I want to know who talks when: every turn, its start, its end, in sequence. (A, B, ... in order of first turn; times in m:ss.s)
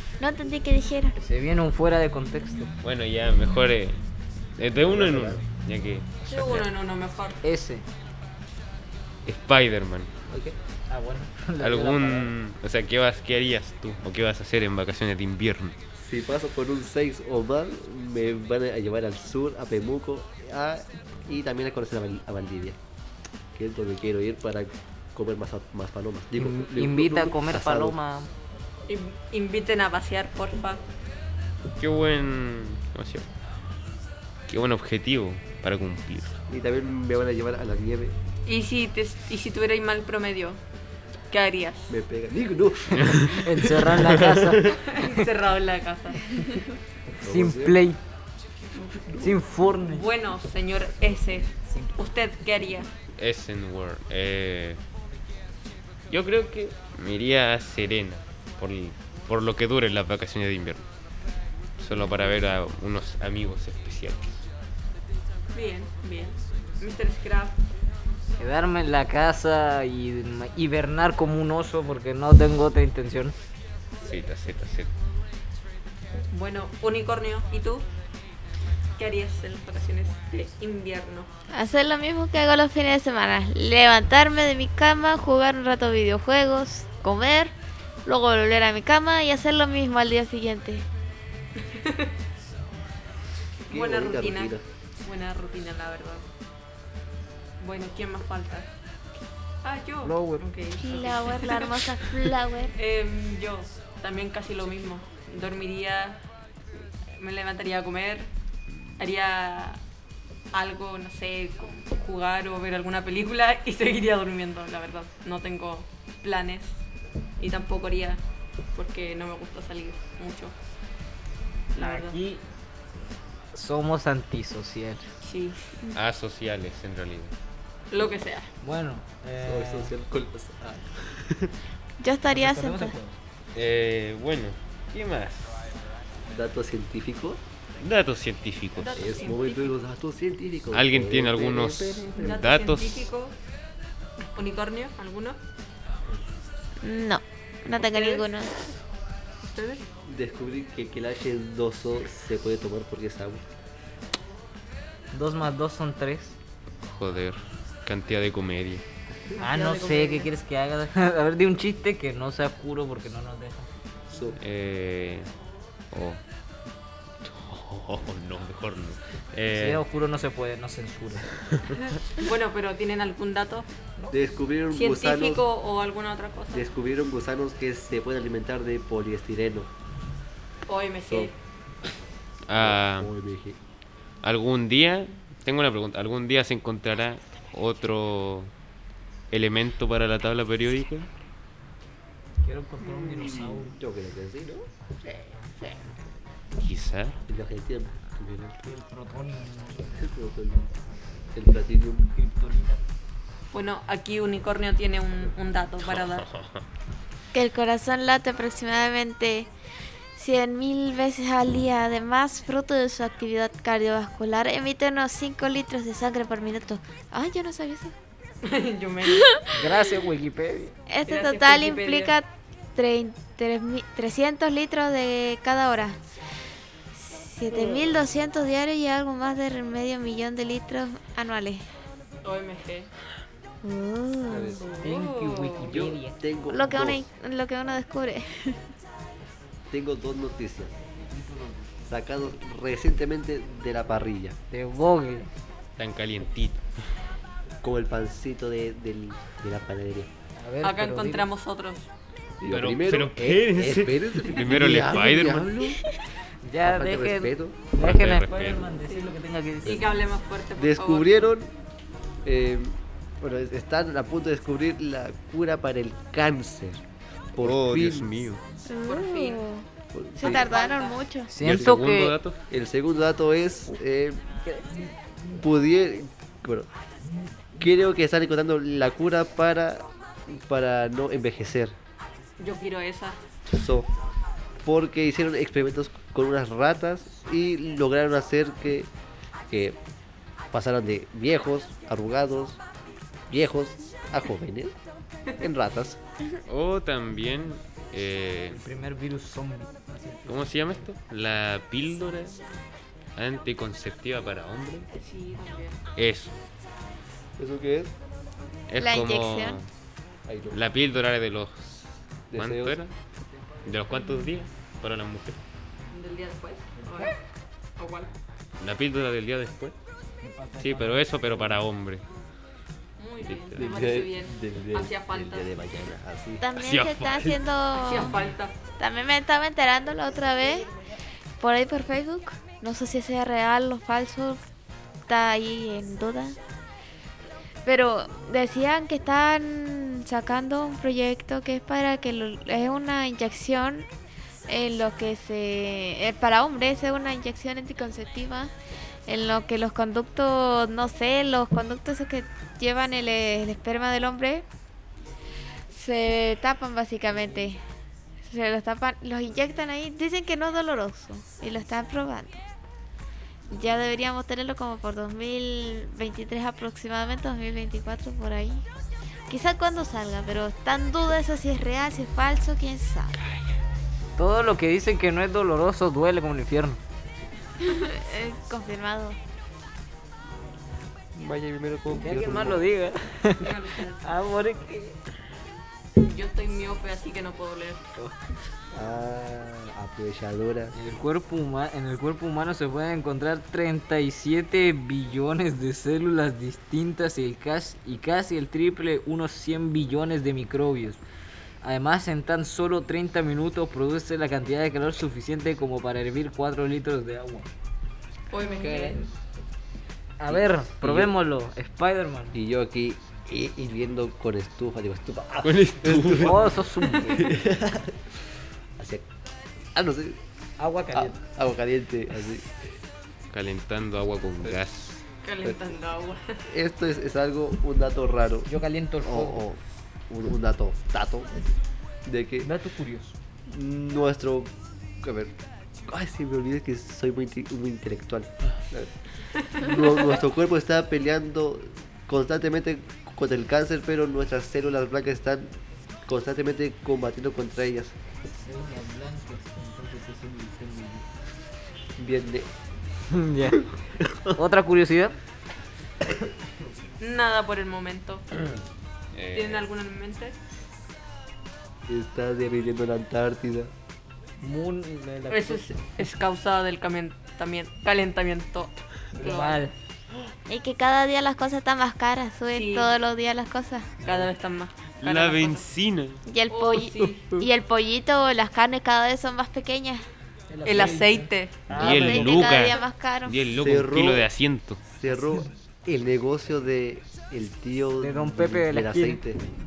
0:00.2-0:01.1 A
0:01.2-0:02.7 B
0:02.8-0:04.0 C
0:04.6-0:06.7 C
0:04.8-0:05.4 D
0:06.3-0:07.4 E
0:07.4-0:07.8 B
0:09.2-0:10.1 C
0:10.3-0:10.6 D
0:10.9-0:12.3 B
0:11.6-0:15.8 C
0:16.0-0:22.8 D
0:23.5-0:28.0 D
0:26.4-0:28.3 B
0:28.9-0:30.8 E
0:31.8-0:33.3 C
0:34.5-0:36.4 C
0:36.5-0:38.1 D
0:38.4-0:40.6 E
0:41.3-0:42.0 E
0:41.9-0:44.0 D
0:43.0-0:43.3 C
0:43.3-0:45.0 B
0:44.2-0:44.8 C
0:44.7-0:46.3 E
0:47.2-0:48.0 B
0:47.2-0:47.8 D
0:49.0-0:49.4 D
0:49.2-0:50.1 B
0:49.9-0:52.9 E
0:51.7-0:51.9 B
0:53.2-0:54.8 C
0:56.1-1:00.9 C
1:01.8-1:04.4 C
1:02.0-1:02.2 E
1:05.5-1:07.6 E
1:08.4-1:13.4 B
1:14.0-1:14.9 C
1:16.3-1:17.8 E
1:19.0-1:21.3 E
1:21.5-1:27.5 A
1:28.0-1:30.8 A
1:31.6-1:32.1 E
1:33.7-1:36.2 E
1:33.7-1:34.6 D
1:37.6-1:38.7 E
1:39.6-1:42.1 E
1:40.0-1:40.4 B
1:40.8-1:42.7 A
1:42.7-1:46.2 E
1:47.0-1:48.3 E
1:49.0-1:49.8 E
1:50.5-1:56.8 E
1:57.4-1:58.2 E
1:58.7-2:00.5 E
2:01.7-2:02.2 E
2:01.8-2:02.4 B
2:03.5-2:05.0 B
2:05.2-2:05.8 E
2:05.9-2:07.3 C
2:07.9-2:08.5 E
2:08.6-2:09.9 B
2:09.4-2:11.4 D
2:12.0-2:13.0 A
2:12.3-2:13.2 B
2:13.5-2:15.5 C
2:16.3-2:17.4 D
2:17.8-2:19.0 C
2:18.8-2:19.8 E
2:18.9-2:22.4 D
2:20.7-2:23.1 C
2:22.2-2:23.3 E
2:24.3-2:25.4 E
2:26.8-2:28.6 A
2:27.7-2:28.3 E
2:29.4-2:29.8 E
2:30.1-2:33.4 D
2:35.1-2:36.4 B
2:36.8-2:38.8 C
2:39.4-2:40.3 E
2:39.4-2:43.8 B
2:44.1-2:44.4 D
2:44.4-2:45.3 C
2:45.9-2:46.2 C
2:47.2-2:49.8 C
2:49.5-2:51.3 B
2:52.2-2:53.7 E
2:54.1-2:55.4 D
2:54.7-2:56.7 E
2:56.5-2:59.7 D
3:00.7-3:01.3 E
3:02.5-3:03.1 C
3:02.5-3:03.6 D
3:04.2-3:08.5 C
3:09.3-3:11.1 C
3:12.4-3:13.8 B
3:13.0-3:14.7 D
3:16.6-3:17.2 C
3:17.3-3:18.7 D
3:18.6-3:19.9 B
3:19.9-3:20.7 D
3:21.3-3:22.1 D
3:22.0-3:22.8 B
3:23.5-3:26.3 E
3:25.8-3:26.6 C
3:27.3-3:29.5 A
3:30.2-3:37.9 A
3:38.4-3:39.3 E
3:39.1-3:39.4 A
3:39.5-3:40.7 B
3:40.9-3:46.0 A
3:41.1-3:42.2 E
3:46.9-3:51.6 A
3:47.5-3:47.8 E
3:52.2-3:52.9 E
3:53.6-3:54.7 A
3:54.3-3:54.7 D
3:54.6-3:55.8 E
3:54.8-3:56.2 B
3:55.7-3:57.0 D
3:56.5-3:58.6 A
3:59.7-4:00.7 D
4:01.0-4:01.7 B
4:01.9-4:04.4 D
4:04.5-4:05.3 B
4:05.8-4:06.6 C
4:07.6-4:10.1 D
4:10.4-4:11.3 B
4:10.6-4:11.9 E
4:12.4-4:15.8 D
4:12.5-4:15.5 C
4:16.4-4:19.9 B
4:16.6-4:17.6 D
4:17.8-4:18.7 C
4:18.8-4:21.3 E
4:20.6-4:21.5 D
4:22.2-4:26.8 D
4:27.3-4:28.1 D
4:27.4-4:28.4 C
4:28.7-4:29.6 A
4:28.8-4:29.4 E
4:29.9-4:30.5 D
4:30.2-4:31.3 A
4:30.2-4:31.0 E
4:31.3-4:32.2 B
4:31.4-4:32.4 C
4:32.5-4:34.2 D
4:34.4-4:34.8 B
4:35.4-4:36.7 D
4:37.6-4:41.7 D
4:42.4-4:43.2 E
4:43.5-4:43.9 D
4:44.6-4:48.9 D
4:49.5-4:49.8 D
4:50.5-4:52.6 D
4:53.3-4:54.7 D
4:55.4-4:56.0 D
4:56.5-4:58.6 C
4:58.5-5:00.8 B
5:00.3-5:02.4 C
5:03.2-5:04.9 C
5:04.9-5:05.8 E
5:06.0-5:06.3 C
5:07.4-5:07.9 D
5:08.7-5:09.7 C
5:08.8-5:09.6 A
5:10.2-5:10.6 D
5:10.5-5:12.9 C
5:12.3-5:12.8 D
5:13.3-5:13.8 B
5:13.6-5:15.4 C
5:15.9-5:17.2 E
5:16.8-5:17.1 B
5:17.8-5:18.1 E
5:18.6-5:19.7 C
5:20.2-5:21.6 B
5:20.6-5:22.0 C
5:23.0-5:25.5 E
5:23.2-5:23.7 C
5:23.6-5:26.5 D
5:26.4-5:28.1 A
5:26.5-5:27.4 C
5:27.8-5:28.5 E
5:28.8-5:30.7 A
5:31.4-5:34.4 A
5:35.1-5:36.4 A
5:37.6-5:43.9 A
5:44.5-5:48.5 A
5:49.1-5:54.4 A
5:55.7-5:57.6 A
5:58.2-6:02.4 A
6:03.5-6:08.6 A
6:09.3-6:13.2 A
6:14.2-6:16.8 B
6:17.6-6:19.2 A
6:21.1-6:22.6 D
6:22.0-6:25.0 B
6:23.4-6:24.0 E
6:26.0-6:27.8 E
6:28.7-6:30.7 D
6:30.7-6:41.0 B
6:41.6-6:47.5 B
6:48.3-6:49.0 E
6:48.6-6:49.0 B
6:50.2-6:52.4 B
6:50.3-6:51.1 D
6:52.3-6:58.1 D
6:55.4-6:56.5 C
6:56.2-6:57.3 B
6:58.8-6:59.0 D
6:59.7-7:00.2 D
7:00.6-7:01.2 B
7:00.9-7:02.6 D
7:03.3-7:05.0 C
7:05.2-7:06.4 E
7:06.5-7:08.5 D
7:08.5-7:09.4 B
7:09.0-7:11.3 D
7:12.0-7:12.5 D
7:12.4-7:13.1 B
7:13.5-7:14.5 D
7:15.0-7:15.3 D
7:15.9-7:18.9 D
7:19.4-7:20.1 E
7:19.5-7:25.5 D
7:26.0-7:27.9 D
7:28.4-7:31.0 B
7:32.0-7:32.5 D
7:33.1-7:33.7 B
7:33.5-7:34.4 D
7:34.3-7:35.2 B
7:37.0-7:38.2 E
7:39.1-7:39.6 C
7:39.3-7:40.4 E
7:41.9-7:43.7 D
7:44.4-7:45.7 B
7:45.3-7:49.7 E
7:49.2-7:49.7 B
7:50.5-7:53.9 A
7:52.5-7:52.9 E
7:54.0-7:55.7 E
7:55.0-7:56.2 C
7:56.2-8:00.0 A
7:56.5-7:57.4 E
8:00.5-8:02.5 B
8:00.6-8:01.6 E
8:01.7-8:04.8 C
8:01.8-8:03.4 A
8:03.5-8:04.3 D
8:04.9-8:09.4 D
8:05.1-8:05.5 B
8:08.0-8:09.2 B